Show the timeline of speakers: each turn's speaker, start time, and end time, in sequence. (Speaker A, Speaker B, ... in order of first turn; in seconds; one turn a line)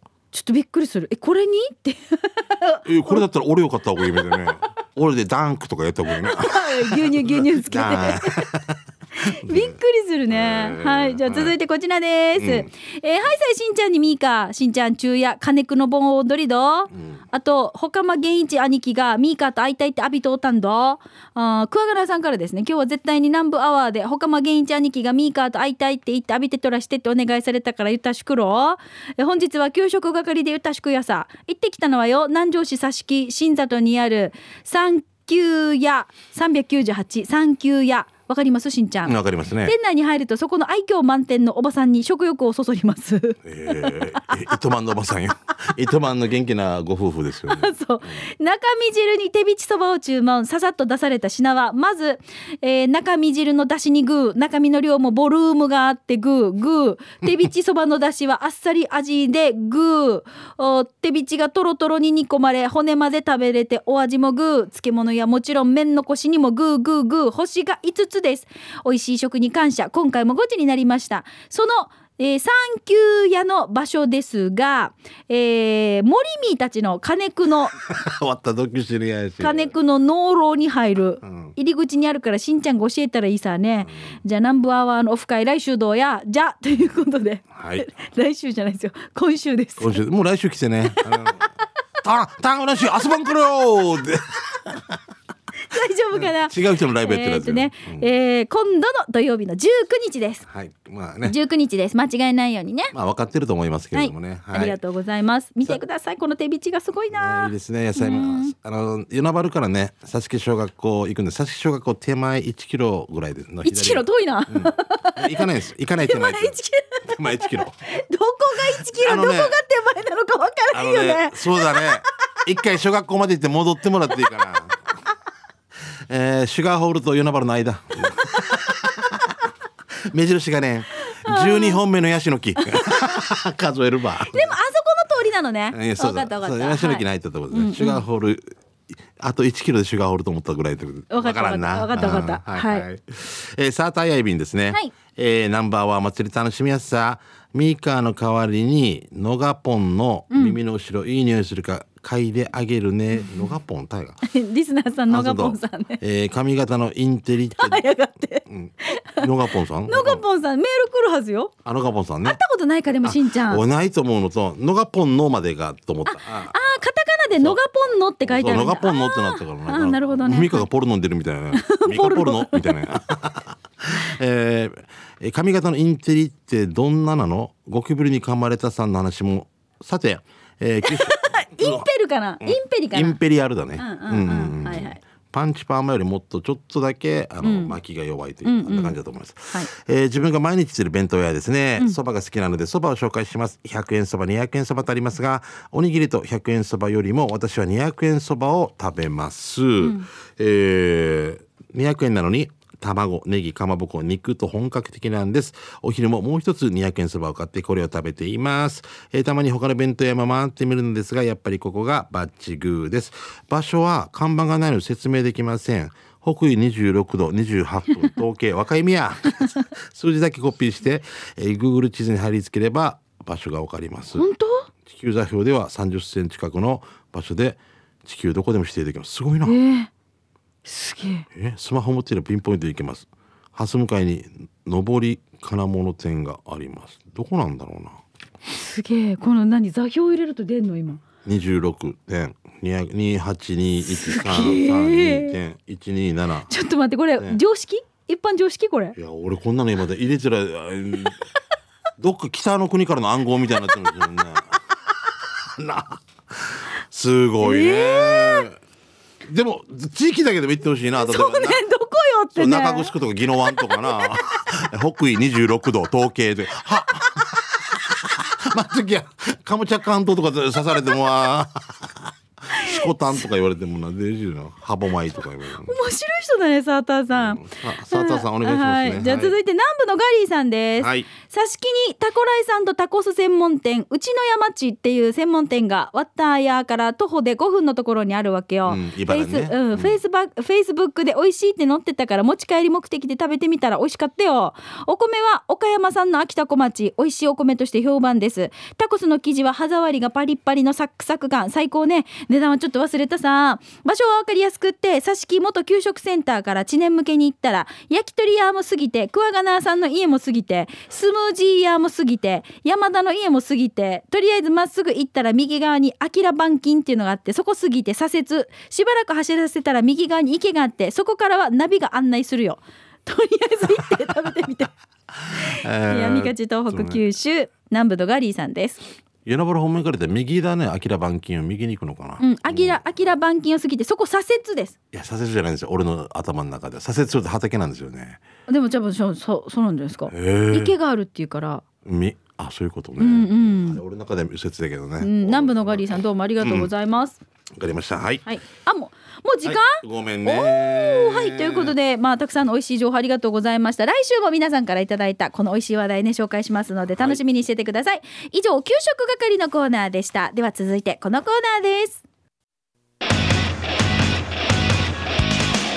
Speaker A: 0.3-3.2
Speaker B: 2.9-8.8
Speaker A: 4.0-4.5
Speaker A: 6.1-8.5
Speaker A: 9.2-44.6
Speaker B: 9.3-9.8
Speaker B: 10.3-11.6
Speaker B: 12.4-12.7
Speaker B: 16.9-17.2
Speaker B: 39.1-39.7
Speaker B: 43.4-47.7
Speaker A: 47.5-77.8
Speaker B: 77.8-79.7
Speaker A: 79.4-90.0
Speaker B: 81.2-81.5
Speaker B: 83.9-84.1
Speaker B: 87.5-87.9
Speaker B: 89.8-91.5
Speaker A: 91.0-91.3
Speaker B: 92.0-95.0
Speaker A: 95.7-100.5
Speaker B: 96.1-98.1
Speaker B: 100.5-101.4
Speaker A: 101.2-102.9
Speaker B: 102.9-104.8
Speaker A: 103.9-108.5
Speaker B: 107.1-116.5
Speaker A: 113.6-115.4
Speaker A: 116.0-122.1
Speaker B: 117.1-117.8
Speaker B: 118.8-119.6
Speaker B: 120.7-124.9
Speaker B: 126.1-129.4
Speaker B: 130.1-134.5
Speaker A: 131.0-131.8
Speaker A: 132.6-133.2
Speaker A: 134.3-138.0
Speaker B: 135.7-154.2
Speaker A: 141.1-142.9
Speaker A: 150.3-150.6
Speaker A: 153.2-153.5
Speaker A: 154.2-156.0
Speaker B: 155.1-157.8
Speaker A: 157.6-159.3
Speaker B: 158.5-160.2
Speaker A: 159.9-161.5
Speaker B: 161.7-162.4
Speaker A: 162.2-163.6
Speaker B: 163.0-166.6
Speaker A: 166.1-170.7
Speaker B: 168.2-181.8
Speaker A: 171.5-172.8
Speaker A: 180.8-183.2
Speaker B: 182.4-224.3
Speaker A: 183.8-185.0
Speaker A: 187.4-187.8
Speaker A: 188.4-188.9
Speaker A: 199.8-200.1
Speaker A: 224.1-224.7
Speaker B: 224.8-229.6
Speaker A: 229.4-229.9
Speaker A: 230.7-231.3
Speaker B: 231.3-238.0
Speaker A: 238.5-241.0
Speaker B: 241.2-246.5
Speaker A: 243.8-245.4
Speaker A: 246.5-248.9
Speaker B: 249.0-251.2
Speaker B: 252.0-254.5
Speaker B: 255.6-258.6
Speaker A: 257.4-258.5
Speaker B: 259.2-261.6
Speaker A: 260.9-262.9
Speaker B: 262.4-275.8
Speaker A: 263.4-264.2
Speaker A: 272.5-272.9
Speaker A: 275.7-324.7
Speaker B: 277.1-279.4
Speaker B: 280.8-281.1
Speaker B: 288.7-290.0
Speaker B: 325.3-327.0
Speaker A: 325.4-328.8
Speaker B: 329.3-332.8
Speaker A: 332.2-334.8
Speaker B: 334.9-338.2
Speaker A: 338.5-341.6
Speaker B: 340.1-340.7
Speaker B: 341.9-346.7
Speaker A: 343.0-343.8
Speaker A: 345.0-347.2
Speaker B: 347.6-348.3
Speaker A: 348.3-362.0
Speaker B: 349.4-351.8